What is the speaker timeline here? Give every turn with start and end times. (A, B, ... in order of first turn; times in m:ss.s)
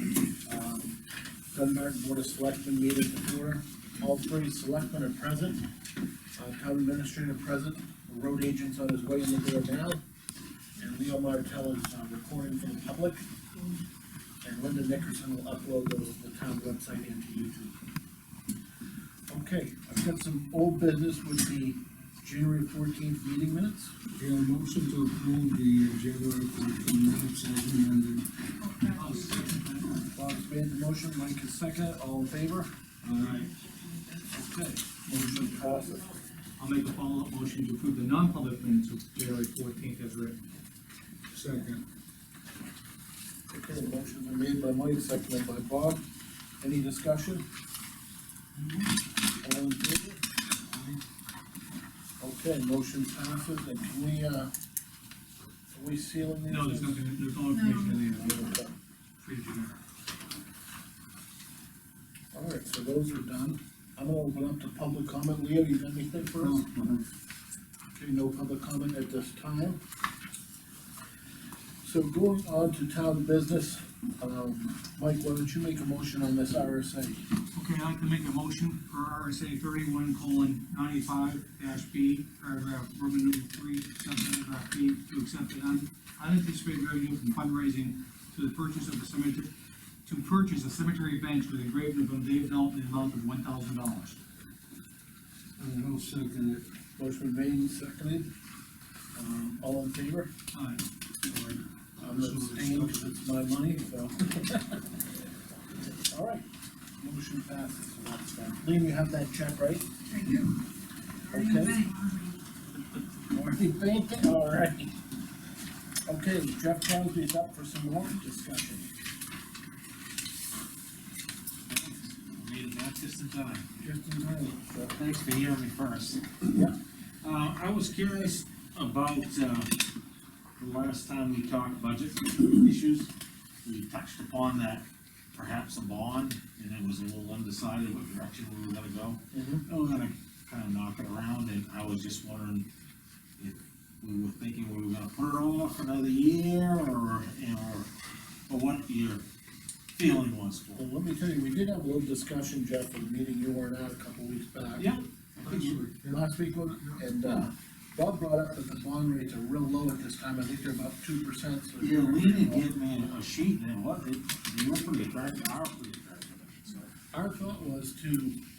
0:00.4-0:01.0 A
0:01.5-0:05.6 A
0:06.4-0:10.0 A
0:10.8-0:13.2 A
0:14.4-0:17.7 A
0:19.3-0:23.9 A
0:24.2-0:28.3 B
0:28.6-0:29.4 C
0:28.9-0:29.9 D
0:30.0-0:32.7 A
0:33.0-0:33.5 B
0:33.2-0:33.5 D
0:34.3-0:36.1 A
0:35.1-0:35.4 D
0:36.6-0:40.4 D
0:41.3-0:41.8 B
0:43.5-0:46.0 A
0:46.6-0:47.4 A
0:49.4-0:50.2 A
0:50.7-0:51.0 B
0:52.2-0:54.5 A
0:55.7-0:57.0 A
0:56.5-0:58.5 D
0:57.5-0:58.0 C
0:58.0-0:58.7 A
0:59.2-0:59.8 D
1:02.3-1:06.6 A
1:06.4-1:07.0 B
1:07.9-1:09.8 A
1:11.8-1:17.2 A
1:17.5-1:29.5 D
1:30.1-1:34.2 D
1:35.6-1:36.6 B
1:37.0-1:38.3 A
1:39.2-1:40.3 A
1:40.5-1:41.6 D
1:42.0-1:45.0 A
1:42.2-1:42.6 B
1:46.0-1:46.4 A
1:47.0-1:49.9 A
1:50.1-1:50.6 C
1:51.2-1:52.4 C
1:51.3-1:51.8 A
1:53.3-1:54.9 A
1:56.1-1:58.9 A
2:01.7-2:03.8 E
2:03.8-2:05.0 A
2:04.9-2:06.4 E
2:06.5-2:06.8 A
2:07.2-2:09.8 E
2:10.6-2:13.1 E
2:13.6-2:22.7 E
2:19.3-2:19.6 A
2:23.4-2:27.9 E
2:28.5-2:29.2 E
2:30.0-2:30.8 E
2:30.8-2:34.9 A
2:34.8-2:35.9 E
2:35.5-2:36.2 B
2:36.0-2:42.6 A
2:41.8-2:46.9 E
2:47.1-2:48.4 A